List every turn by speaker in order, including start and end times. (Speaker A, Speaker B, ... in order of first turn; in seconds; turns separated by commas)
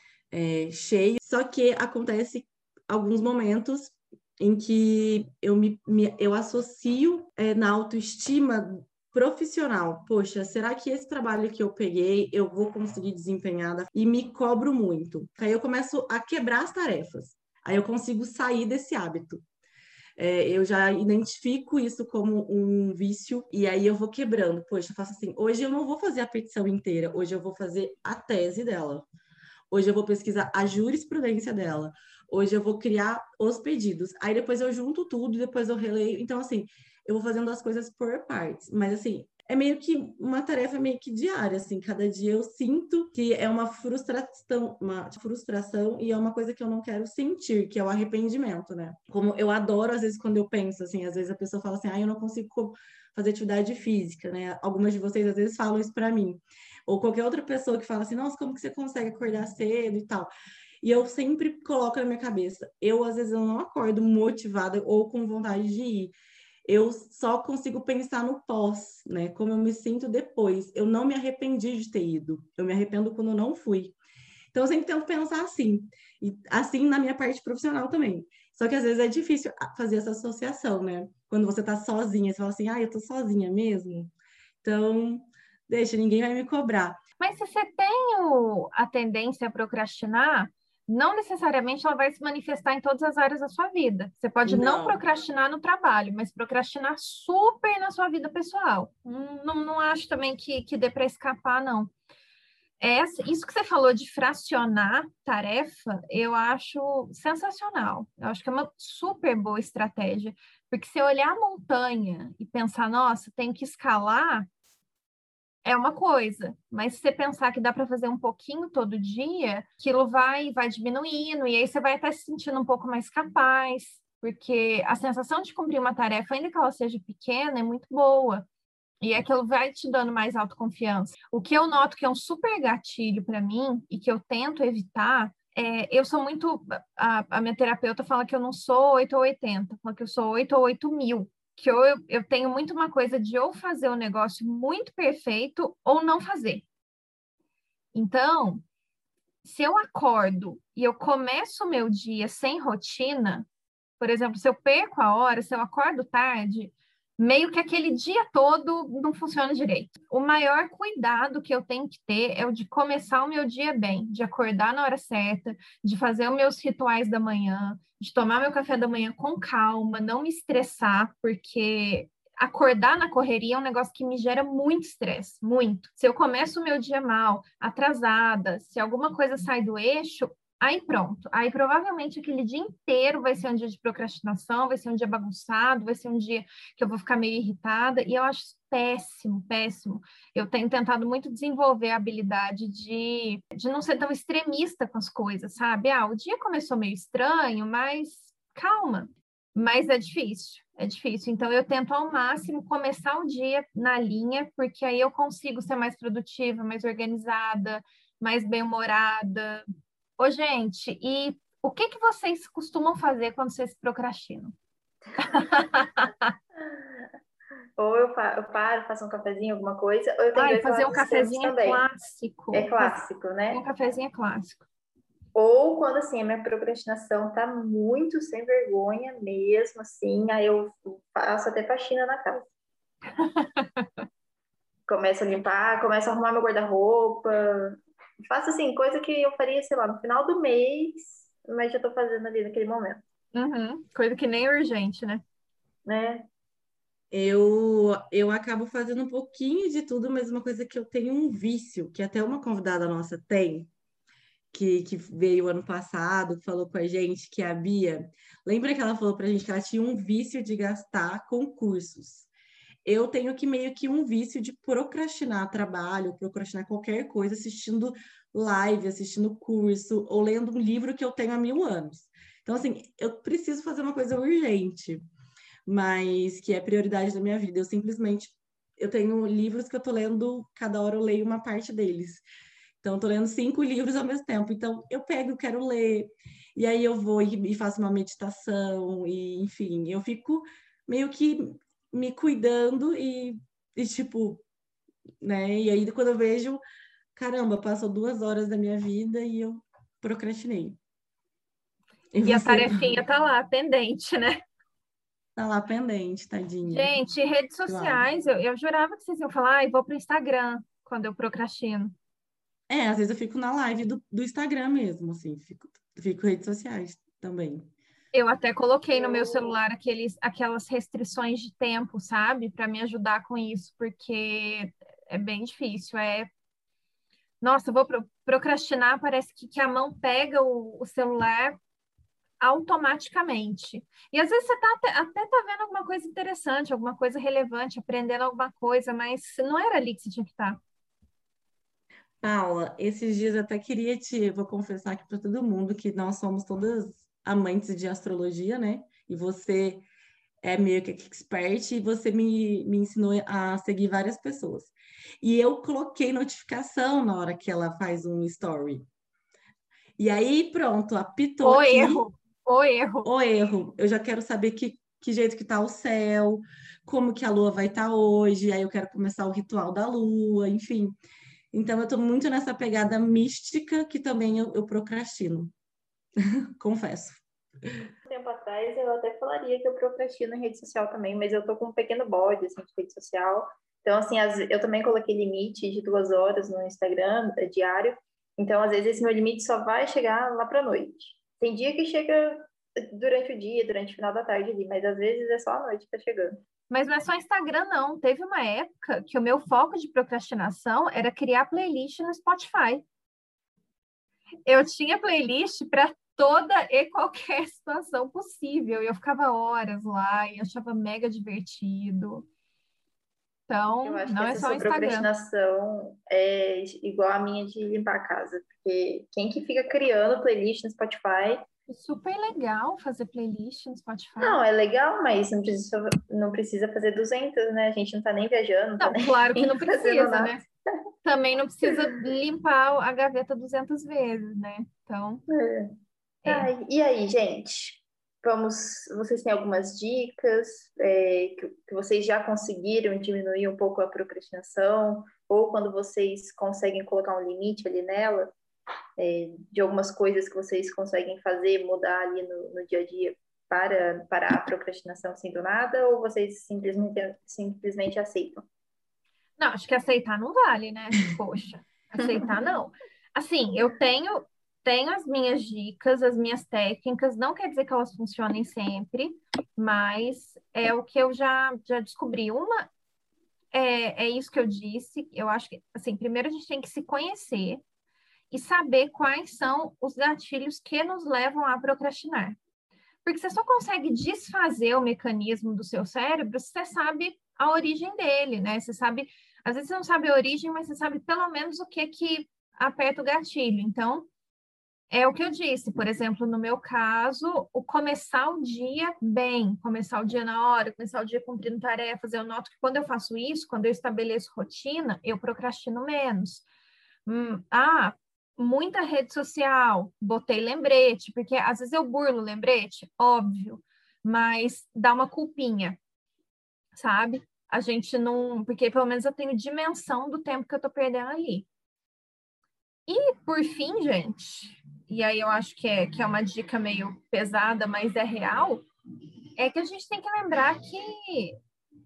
Speaker A: 0.3-19.4, Speaker A: 20.2-29.1, Speaker A: 29.7-60.3, Speaker A: 60.8-66.1, Speaker A: 66.7-74.0, Speaker A: 74.5-87.0, Speaker B: 87.2-101.9, Speaker A: 94.4-95.0, Speaker B: 102.8-114.5, Speaker B: 115.7-128.4, Speaker B: 129.0-146.7, Speaker B: 147.9-148.6, Speaker B: 149.4-153.5, Speaker B: 154.0-209.7, Speaker B: 210.2-214.6, Speaker B: 215.2-216.3, Speaker C: 216.6-216.9, Speaker C: 217.8-221.8, Speaker B: 220.3-223.0, Speaker C: 222.5-223.6, Speaker B: 223.5-224.7, Speaker C: 225.3-232.5, Speaker B: 233.2-233.9, Speaker C: 234.9-243.0, Speaker B: 243.3-245.2, Speaker C: 245.9-246.3, Speaker A: 247.1-253.7, Speaker A: 254.5-262.3, Speaker A: 262.9-275.0, Speaker A: 275.7-282.2, Speaker A: 282.8-294.4, Speaker A: 295.2-296.6, Speaker A: 297.1-300.8, Speaker A: 302.1-303.0, Speaker B: 302.2-304.4, Speaker A: 305.4-306.9, Speaker B: 306.6-311.9, Speaker A: 307.7-308.1, Speaker A: 312.7-317.7, Speaker B: 318.1-326.3, Speaker C: 318.9-319.6, Speaker B: 327.4-331.6, Speaker B: 332.4-340.6, Speaker A: 342.2-349.8, Speaker A: 350.4-358.9, Speaker A: 360.0-362.1, Speaker B: 361.4-363.1, Speaker A: 363.0-371.0, Speaker A: 371.5-375.5, Speaker A: 376.6-377.2, Speaker C: 378.1-396.4, Speaker B: 396.7-402.8, Speaker B: 404.5-412.3, Speaker B: 413.5-415.1, Speaker C: 413.8-421.4, Speaker B: 421.7-424.4, Speaker C: 424.2-430.3, Speaker B: 428.8-430.5, Speaker B: 431.1-435.2, Speaker C: 435.3-435.7, Speaker C: 436.3-448.3, Speaker C: 449.0-458.4, Speaker B: 459.4-472.7, Speaker B: 473.5-477.6, Speaker B: 478.3-482.4, Speaker B: 483.1-494.1, Speaker B: 494.9-506.4, Speaker B: 507.1-515.8, Speaker B: 516.8-521.5, Speaker B: 522.9-528.6, Speaker B: 529.4-531.4